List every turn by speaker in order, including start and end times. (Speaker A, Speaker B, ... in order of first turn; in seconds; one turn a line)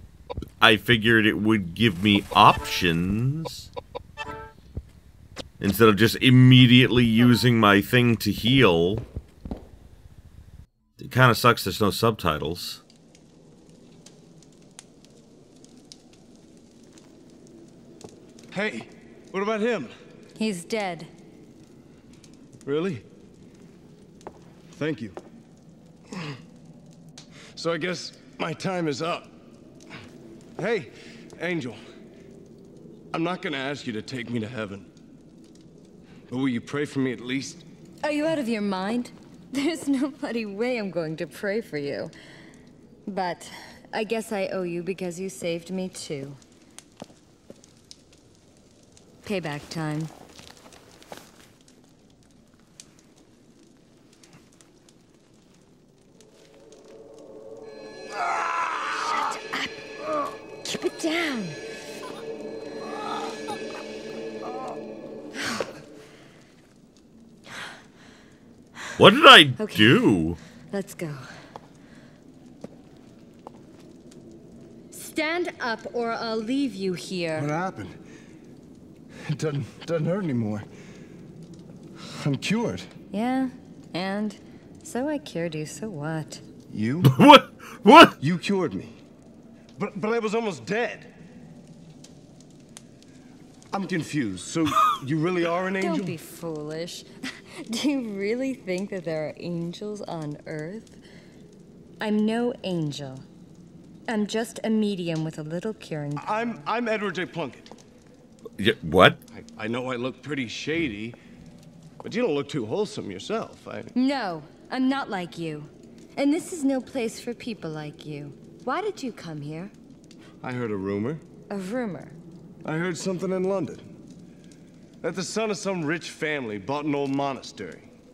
Speaker A: 0.6-3.7
Speaker A: 5.6-9.1
Speaker A: 11.0-12.8
Speaker B: 18.5-19.9
Speaker C: 20.4-21.1
Speaker B: 22.6-23.0
Speaker B: 24.8-25.2
Speaker B: 27.6-29.3
Speaker B: 30.6-31.8
Speaker B: 33.1-34.9
Speaker B: 36.3-37.6
Speaker C: 38.0-42.1
Speaker C: 43.1-46.4
Speaker C: 49.2-50.1
Speaker C: 58.6-59.8
Speaker C: 60.6-61.6
Speaker A: 69.0-70.4
Speaker C: 69.6-70.0
Speaker C: 70.7-71.2
Speaker C: 74.9-77.5
Speaker B: 77.4-77.9
Speaker B: 79.2-80.6
Speaker B: 82.1-82.9
Speaker C: 83.1-86.4
Speaker B: 86.7-87.1
Speaker A: 87.0-88.2
Speaker B: 88.2-89.0
Speaker B: 89.8-91.1
Speaker B: 93.7-96.2
Speaker C: 95.8-101.0
Speaker C: 102.0-103.2
Speaker C: 104.1-106.6
Speaker B: 106.2-107.7
Speaker A: 108.6-109.2
Speaker B: 109.3-111.2
Speaker B: 112.0-113.9
Speaker C: 114.0-119.7
Speaker B: 120.4-121.2
Speaker C: 121.5-122.2
Speaker B: 122.6-123.9
Speaker B: 125.0-127.9